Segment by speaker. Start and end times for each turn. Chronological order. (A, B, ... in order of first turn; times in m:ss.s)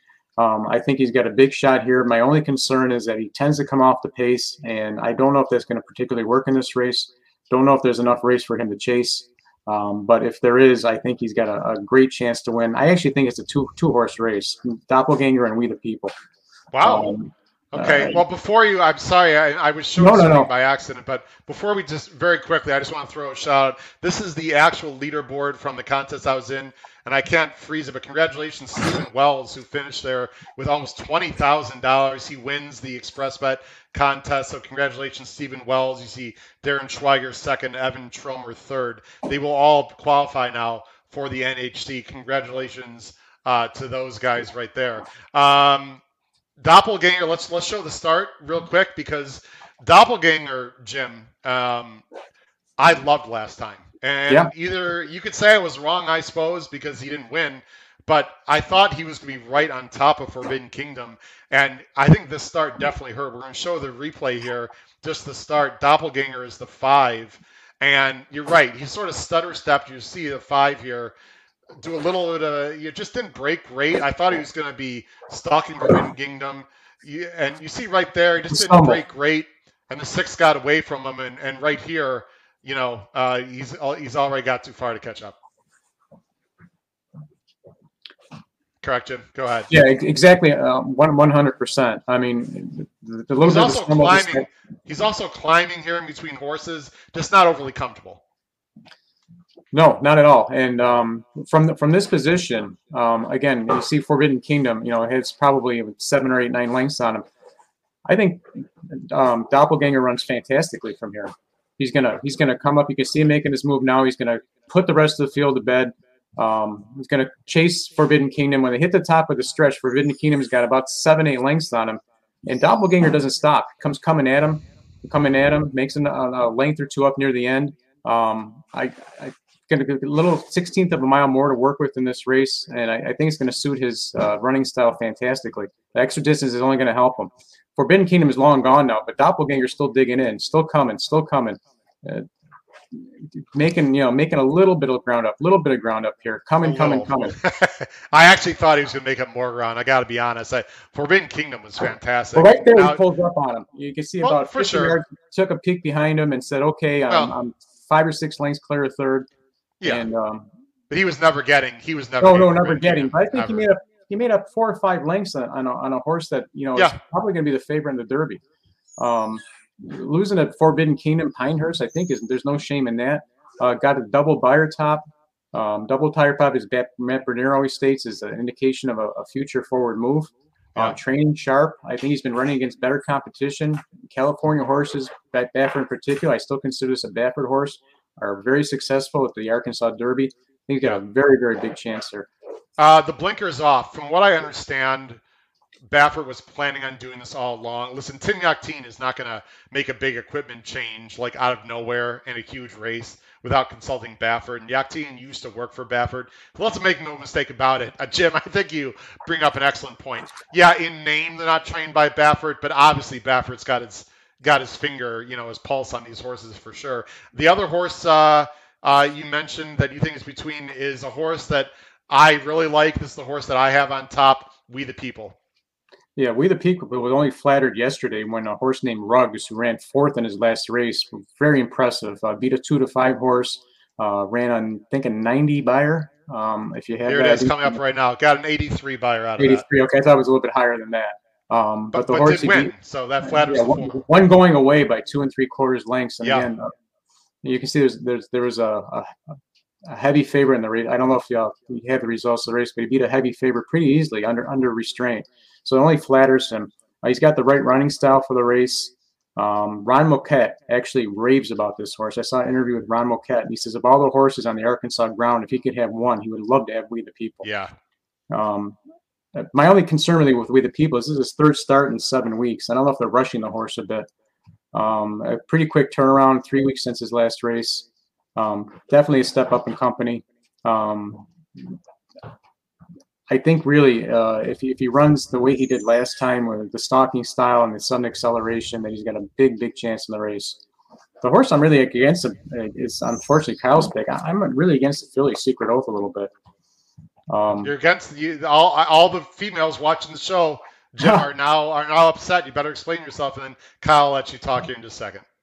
0:00.4-0:16.1 A
0:16.7-0:17.1 B
0:16.8-0:18.2 A
0:17.7-0:46.0 B
0:20.0-0:20.5 A
0:46.6-0:52.0 B
0:52.8-1:11.1 B
1:11.8-1:25.4 B
1:18.5-1:19.0 A
1:28.8-1:29.7 B
1:29.7-1:34.5 A
1:33.4-1:38.2 B
1:39.7-1:47.2 A
1:48.0-2:22.3 A
2:22.9-2:27.4 A
2:26.6-2:33.0 B
2:32.4-2:39.3 A
2:34.2-2:35.0 B
2:39.8-2:40.5 A
2:40.9-2:43.7 B
2:42.2-2:48.4 A
2:49.0-3:12.3 A
3:12.8-3:15.2 B
3:15.9-3:45.4 B
3:46.2-3:57.8 A
3:57.1-3:59.6 B
3:59.4-4:06.7 A
4:01.9-4:04.0 B
4:06.2-4:06.5 B
4:07.4-4:09.2 A
4:09.8-4:27.5 A
4:27.4-4:27.7 B
4:28.3-4:28.8 A
4:29.4-4:34.1 A
4:34.7-4:41.8 A
4:43.3-4:50.6 A
4:51.2-4:56.3 A
4:57.3-4:57.7 A
4:57.6-5:05.2 B